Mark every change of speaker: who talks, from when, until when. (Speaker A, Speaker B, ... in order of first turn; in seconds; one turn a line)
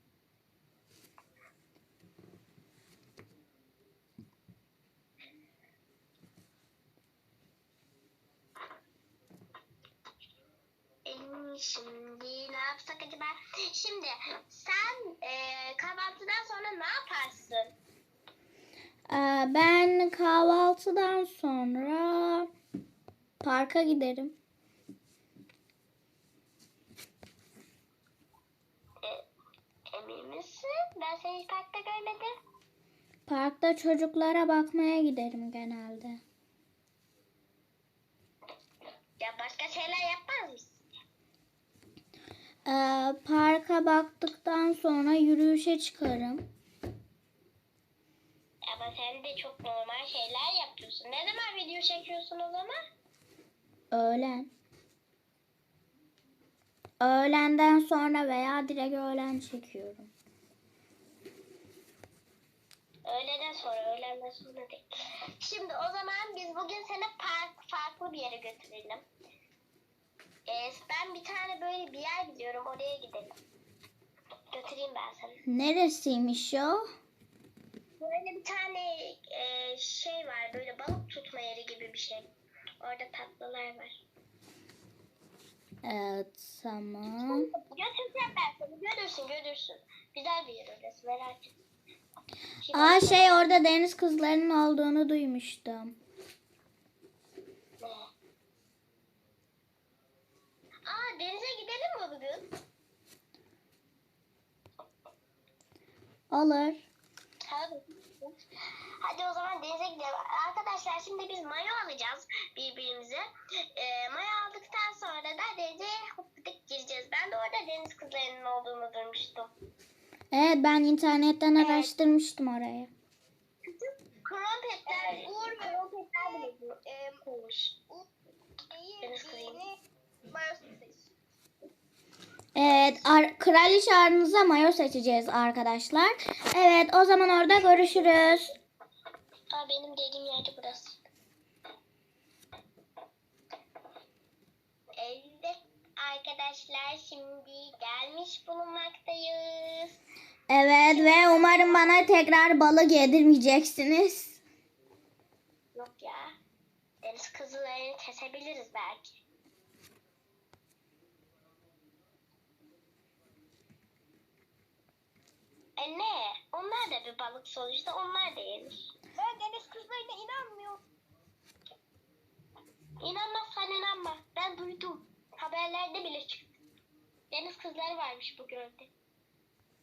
Speaker A: 11.1-17.7
Speaker B: 19.1-22.5
Speaker B: 23.4-24.3
Speaker A: 29.9-32.3
Speaker B: 33.3-36.2
Speaker A: 39.2-40.8
Speaker B: 42.6-46.5
Speaker A: 48.7-52.8
Speaker B: 53.9-54.5
Speaker B: 57.0-60.1
Speaker A: 63.0-69.1
Speaker A: 70.5-73.3
Speaker A: 74.5-75.4
Speaker B: 75.5-76.9
Speaker A: 78.0-82.3
Speaker A: 82.8-84.0
Speaker B: 85.8-87.5
Speaker A: 87.3-91.6
Speaker A: 92.6-93.5
Speaker B: 92.7-96.0
Speaker A: 97.8-98.1
Speaker A: 100.9-102.5
Speaker B: 106.3-106.8
Speaker A: 107.5-108.4
Speaker A: 109.0-119.5
Speaker B: 120.3-122.9
Speaker A: 121.6-121.9
Speaker A: 123.7-127.8
Speaker C: 124.9-127.2
Speaker C: 128.7-129.8
Speaker A: 129.0-129.6
Speaker C: 130.3-131.1
Speaker B: 132.6-138.5
Speaker A: 139.5-141.0
Speaker A: 145.0-150.0
Speaker B: 150.5-154.4
Speaker A: 150.9-152.1
Speaker A: 155.8-156.3
Speaker A: 157.0-159.2
Speaker A: 165.8-168.9
Speaker C: 169.2-170.8
Speaker A: 173.0-176.6
Speaker A: 177.3-178.9